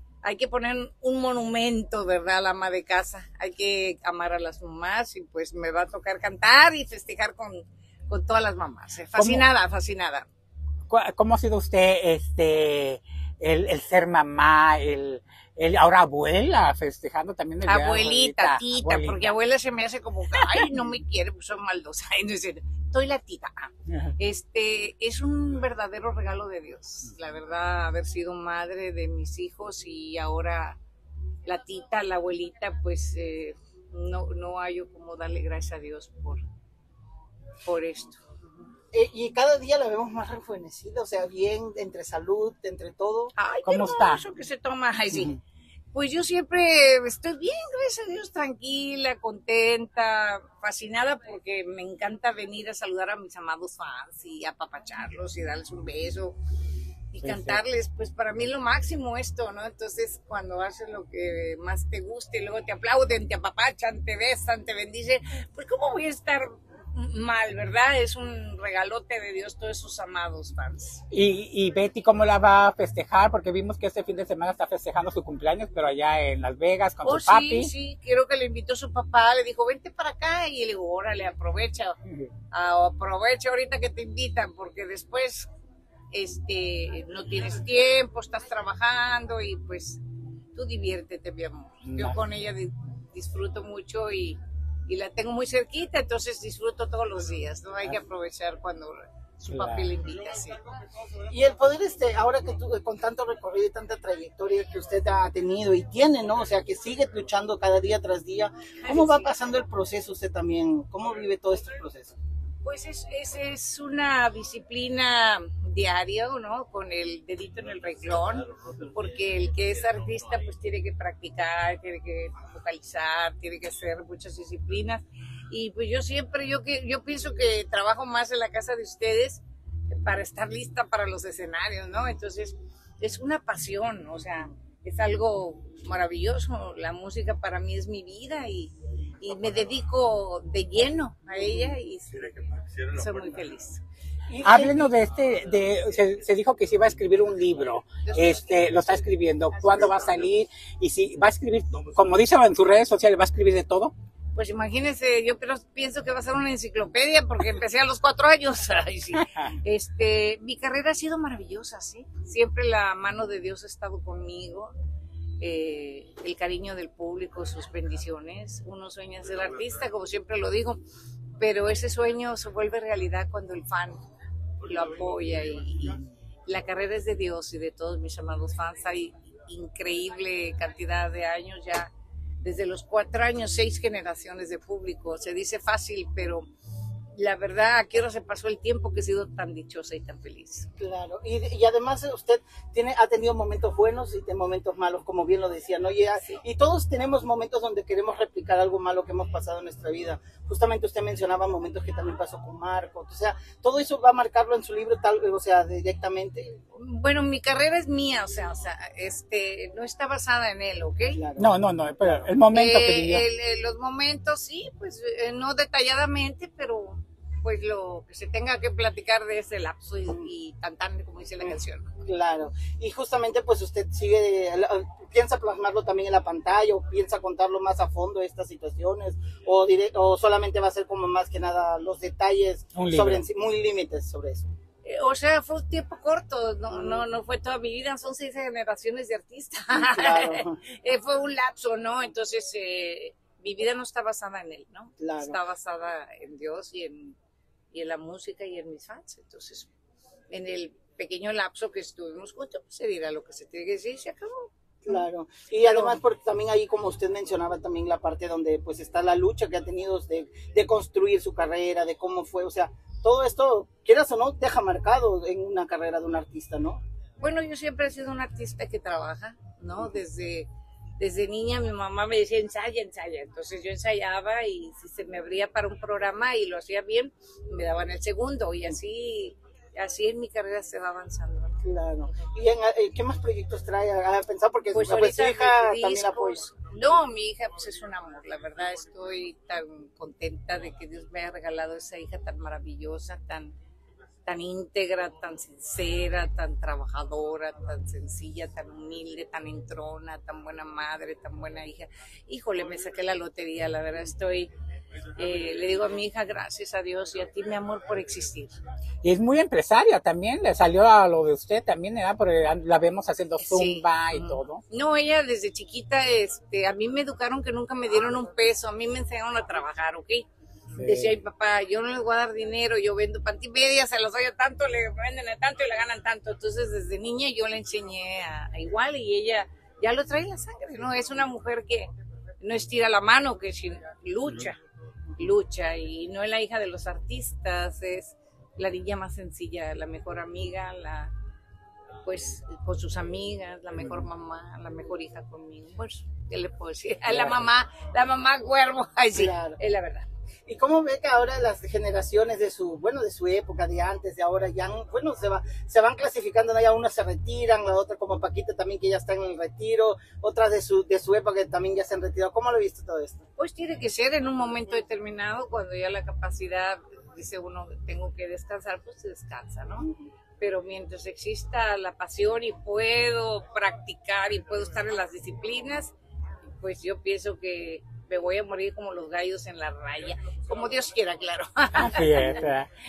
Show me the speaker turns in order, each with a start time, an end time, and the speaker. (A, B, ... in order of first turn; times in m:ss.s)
0:00.2-0:10.2 A
0:09.2-0:09.4 B
0:10.9-0:19.3 B
0:17.6-0:30.8 A
0:20.4-0:20.7 B
0:31.4-0:36.4 A
0:37.6-0:38.2 A
0:38.9-0:43.3 C
0:43.4-0:45.4 A
0:43.6-0:44.2 B
0:45.9-0:56.4 A
0:57.1-1:11.0 A
0:57.2-0:57.6 B
1:11.1-1:17.7 B
1:17.0-1:22.0 A
1:22.5-1:25.5 A
1:26.1-1:30.0 A
1:30.5-1:40.7 A
1:31.8-1:32.2 B
1:39.5-1:39.9 B
1:41.2-1:52.2 C
1:48.8-1:49.3 A
1:52.6-2:23.8 A
2:21.4-2:21.7 C
2:24.3-2:24.8 C
2:24.4-2:33.9 B
2:28.0-2:29.0 A
2:34.3-2:44.7 A
2:39.1-2:39.5 B
2:45.4-2:50.8 A
2:51.4-2:54.0 A
2:54.6-3:01.9 A
3:02.4-3:06.4 A
3:07.1-3:10.7 A
3:10.8-3:26.6 C
3:26.8-3:31.2 A
3:31.1-3:32.2 C
3:31.4-3:33.2 B
3:32.5-3:42.0 A
3:41.4-3:54.5 C
3:52.7-3:53.2 B
3:54.8-4:07.2 A
3:56.7-3:57.1 C
3:59.7-4:00.6 C
4:05.0-4:05.4 C
4:07.7-4:09.7 A
4:10.3-4:15.0 A
4:14.8-4:26.8 C
4:15.6-4:16.0 A
4:27.2-4:41.6 A
4:41.6-4:46.5 C
4:44.7-4:53.5 A
4:54.2-5:04.5 A
5:05.1-5:08.6 A
5:09.0-5:14.6 B
5:13.4-5:20.3 A
5:20.8-5:21.1 B
5:20.8-5:31.9 A
5:32.4-5:34.6 A
5:35.2-5:41.1 A
5:42.0-5:50.1 A
5:47.1-5:47.4 B
5:49.1-5:49.6 C
5:50.4-6:03.2 C
6:03.4-6:09.9 A
6:10.4-6:15.9 A
6:16.6-6:22.5 A
6:21.8-6:22.7 B